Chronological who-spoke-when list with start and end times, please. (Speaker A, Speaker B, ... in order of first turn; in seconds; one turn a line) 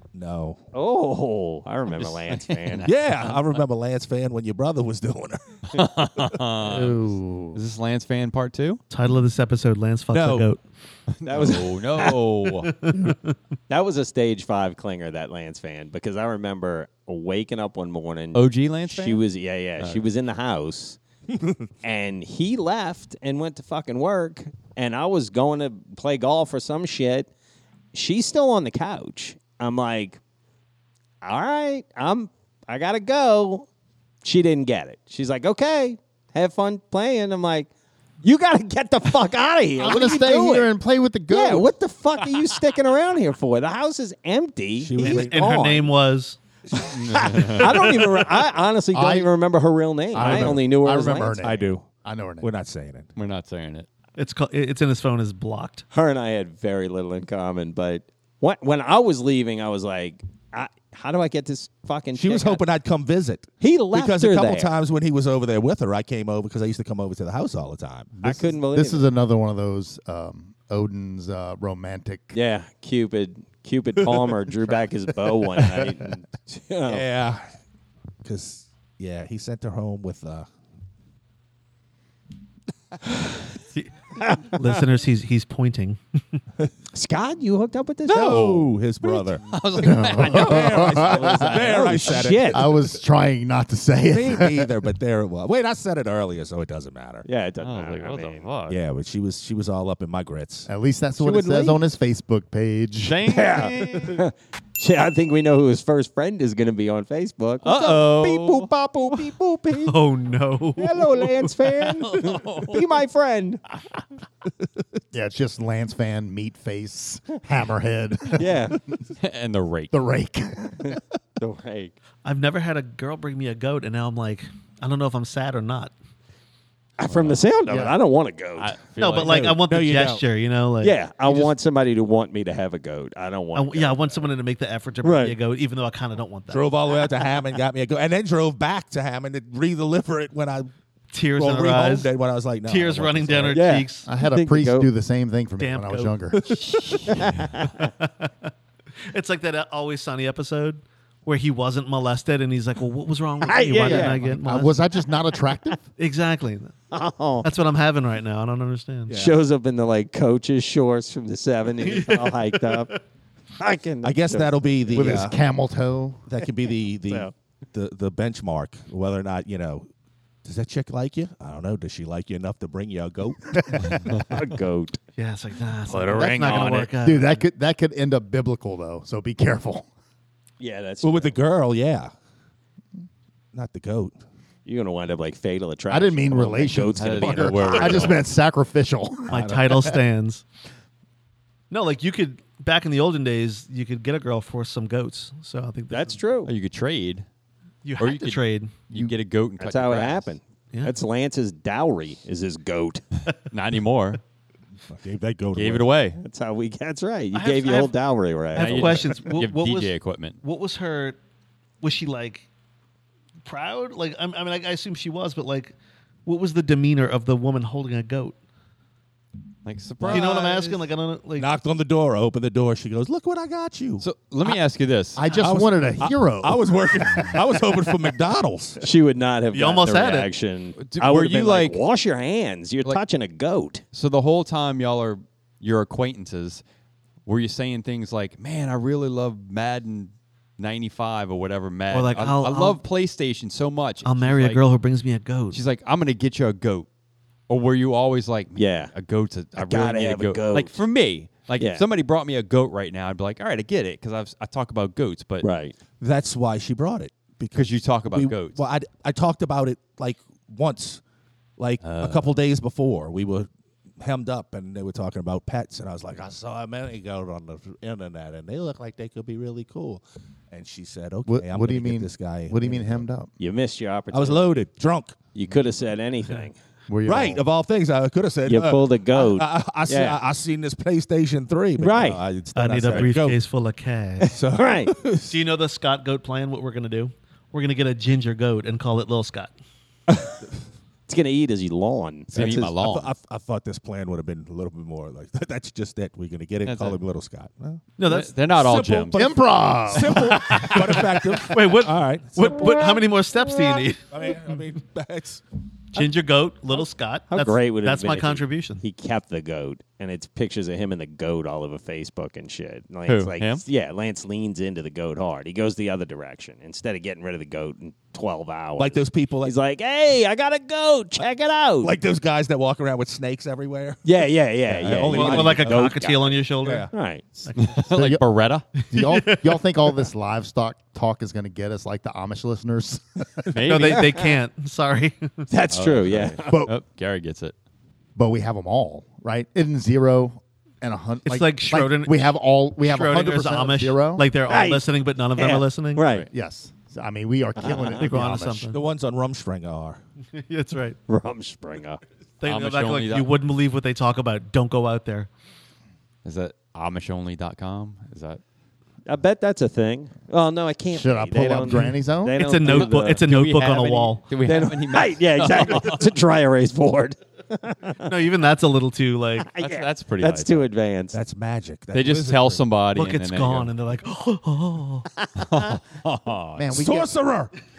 Speaker A: 0.1-0.6
Speaker B: 0.7-2.9
Speaker C: 2.0-3.3
Speaker A: 2.8-5.8
Speaker C: 5.7-8.8
Speaker D: 6.6-7.6
Speaker E: 8.9-10.6
Speaker A: 10.1-10.5
Speaker C: 11.1-12.7
Speaker B: 11.2-12.2
Speaker E: 12.6-13.3
Speaker B: 13.7-21.0
Speaker C: 18.3-19.2
Speaker A: 21.3-21.6
Speaker B: 21.8-27.3
Speaker B: 27.9-30.2
Speaker B: 31.2-33.7
Speaker B: 34.2-37.7
Speaker B: 38.2-40.7
Speaker D: 39.8-41.7
Speaker B: 41.3-45.9
Speaker A: 44.8-45.5
Speaker E: 45.0-46.4
Speaker C: 46.8-47.8
Speaker B: 46.9-51.4
Speaker D: 48.9-49.3
Speaker D: 50.1-52.5
Speaker A: 50.2-50.6
Speaker A: 51.4-51.9
Speaker A: 52.4-53.1
Speaker C: 53.1-53.9
Speaker E: 54.2-55.8
Speaker B: 55.9-62.6
Speaker A: 62.1-68.2
Speaker B: 63.6-64.7
Speaker B: 68.2-69.0
Speaker D: 68.2-72.4
Speaker B: 72.3-77.0
Speaker D: 74.3-74.8
Speaker D: 75.5-75.8
Speaker A: 76.9-77.5
Speaker A: 78.2-80.5
Speaker B: 84.2-84.7
Speaker E: 84.4-86.4
Speaker B: 86.9-88.5
Speaker A: 88.1-93.0
Speaker C: 88.1-90.9
Speaker D: 89.8-94.7
Speaker B: 90.5-92.7
Speaker A: 94.0-97.2
Speaker B: 97.2-98.5
Speaker C: 97.6-98.8
Speaker A: 98.7-100.7
Speaker D: 100.7-103.2
Speaker B: 101.2-101.8
Speaker C: 103.0-104.2
Speaker B: 103.3-109.9
Speaker C: 107.6-108.7
Speaker E: 109.8-111.8
Speaker B: 110.8-113.6
Speaker C: 112.1-112.8
Speaker D: 115.1-118.7
Speaker B: 118.3-118.8
Speaker C: 119.2-120.0
Speaker D: 119.9-121.0
Speaker B: 120.8-122.0
Speaker E: 122.2-125.9
Speaker B: 127.0-128.7
Speaker C: 127.0-127.5
Speaker D: 127.7-128.0
Speaker C: 128.6-129.5
Speaker E: 128.9-131.5
Speaker A: 129.2-130.2
Speaker B: 130.8-134.3
Speaker E: 133.5-136.6
Speaker B: 135.0-135.4
Speaker A: 136.5-140.7
Speaker E: 141.1-142.1
Speaker A: 141.3-143.6
Speaker E: 142.6-144.1
Speaker B: 143.5-144.9
Speaker D: 144.1-146.5
Speaker E: 145.6-146.2
Speaker A: 146.4-146.8
Speaker C: 146.9-147.3
Speaker B: 147.0-147.9
Speaker E: 147.8-148.5
Speaker E: 149.1-154.8
Speaker B: 153.4-154.2
Speaker D: 153.8-155.9
Speaker E: 156.0-156.7
Speaker B: 156.9-157.5
Speaker E: 157.4-159.2
Speaker A: 159.1-159.4
Speaker B: 159.1-162.9
Speaker E: 161.8-163.0
Speaker B: 163.6-165.3
Speaker A: 164.0-165.4
Speaker D: 164.9-166.2
Speaker A: 166.3-169.9
Speaker A: 170.4-173.4
Speaker D: 173.6-174.2
Speaker B: 174.3-175.0
Speaker E: 175.2-177.4
Speaker C: 175.9-176.9
Speaker B: 176.0-176.9
Speaker D: 177.0-179.9
Speaker B: 180.6-181.4
Speaker A: 181.0-182.1
Speaker A: 183.5-184.2
Speaker B: 184.7-188.2
Speaker D: 185.9-189.4
Speaker C: 187.0-188.2
Speaker E: 189.3-190.4
Speaker A: 189.3-189.9
Speaker E: 191.7-196.2
Speaker B: 195.9-196.5
Speaker C: 196.4-197.2
Speaker E: 197.8-198.8
Speaker C: 198.0-200.3
Speaker B: 199.6-203.0
Speaker C: 203.5-204.2
Speaker A: 204.9-205.9
Speaker C: 205.5-206.2
Speaker B: 206.2-209.1
Speaker E: 207.3-207.9
Speaker E: 208.5-211.2
Speaker C: 208.6-210.4
Speaker E: 211.8-212.5
Speaker E: 213.4-215.7
Speaker E: 216.2-218.3
Speaker C: 219.6-220.8
Speaker A: 220.0-220.3
Speaker E: 220.1-221.5
Speaker A: 221.4-224.0
Speaker C: 224.0-225.2
Speaker D: 225.2-227.4
Speaker A: 225.3-228.8
Speaker B: 228.8-233.8
Speaker E: 229.5-230.3
Speaker C: 230.8-231.8
Speaker C: 233.9-236.6
Speaker C: 237.2-244.6
Speaker E: 241.9-242.8
Speaker E: 244.0-245.6
Speaker C: 245.5-246.9
Speaker C: 247.5-255.5
Speaker B: 248.6-248.9
Speaker B: 249.5-250.8
Speaker B: 251.6-251.8
Speaker B: 255.4-255.7
Speaker A: 256.0-261.0
Speaker C: 257.5-258.6
Speaker A: 261.6-263.5
Speaker C: 261.8-262.3
Speaker A: 264.0-273.1
Speaker D: 271.3-273.3
Speaker B: 273.4-274.5
Speaker A: 274.1-275.2
Speaker B: 275.3-276.5
Speaker D: 276.9-277.4
Speaker A: 277.0-283.4
Speaker B: 278.4-280.2
Speaker B: 281.8-282.2
Speaker E: 282.5-284.4
Speaker A: 284.3-285.4
Speaker B: 284.5-284.9
Speaker E: 285.3-289.5
Speaker B: 291.1-292.7
Speaker C: 292.3-293.1
Speaker A: 292.4-297.9
Speaker C: 296.6-297.0
Speaker E: 298.0-298.3
Speaker C: 298.0-299.3
Speaker A: 298.6-302.8
Speaker D: 299.1-300.2
Speaker C: 300.5-300.8
Speaker E: 301.5-304.0
Speaker A: 304.1-305.4
Speaker E: 305.9-308.8
Speaker B: 307.3-321.9
Speaker C: 313.1-313.6
Speaker A: 318.8-319.5
Speaker A: 321.8-324.0
Speaker B: 324.0-327.5
Speaker A: 324.7-325.9
Speaker E: 325.1-326.9
Speaker A: 326.6-326.9
Speaker E: 327.5-327.8
Speaker C: 327.5-328.6
Speaker D: 327.9-328.2
Speaker E: 328.8-329.6
Speaker D: 328.9-333.5
Speaker C: 333.5-334.2
Speaker E: 333.6-335.5
Speaker B: 333.8-334.1
Speaker B: 335.5-336.6
Speaker C: 335.7-337.5
Speaker D: 336.5-336.7
Speaker D: 338.1-344.3
Speaker E: 341.2-346.1
Speaker B: 344.5-346.3
Speaker D: 346.3-348.7
Speaker B: 347.6-348.0
Speaker E: 347.9-348.8
Speaker A: 348.7-350.0
Speaker E: 350.3-351.0
Speaker B: 351.1-352.0
Speaker E: 352.4-355.3
Speaker C: 352.4-353.3
Speaker C: 356.2-358.4
Speaker B: 359.1-363.2
Speaker D: 360.9-362.4
Speaker E: 362.3-364.2
Speaker C: 362.6-366.1
Speaker B: 364.4-368.1
Speaker E: 368.0-369.5
Speaker B: 369.4-371.2
Speaker C: 369.6-370.7
Speaker A: 371.1-372.6
Speaker C: 371.9-373.7
Speaker E: 372.9-375.1
Speaker C: 375.4-376.7
Speaker D: 376.6-377.1
Speaker A: 376.7-377.5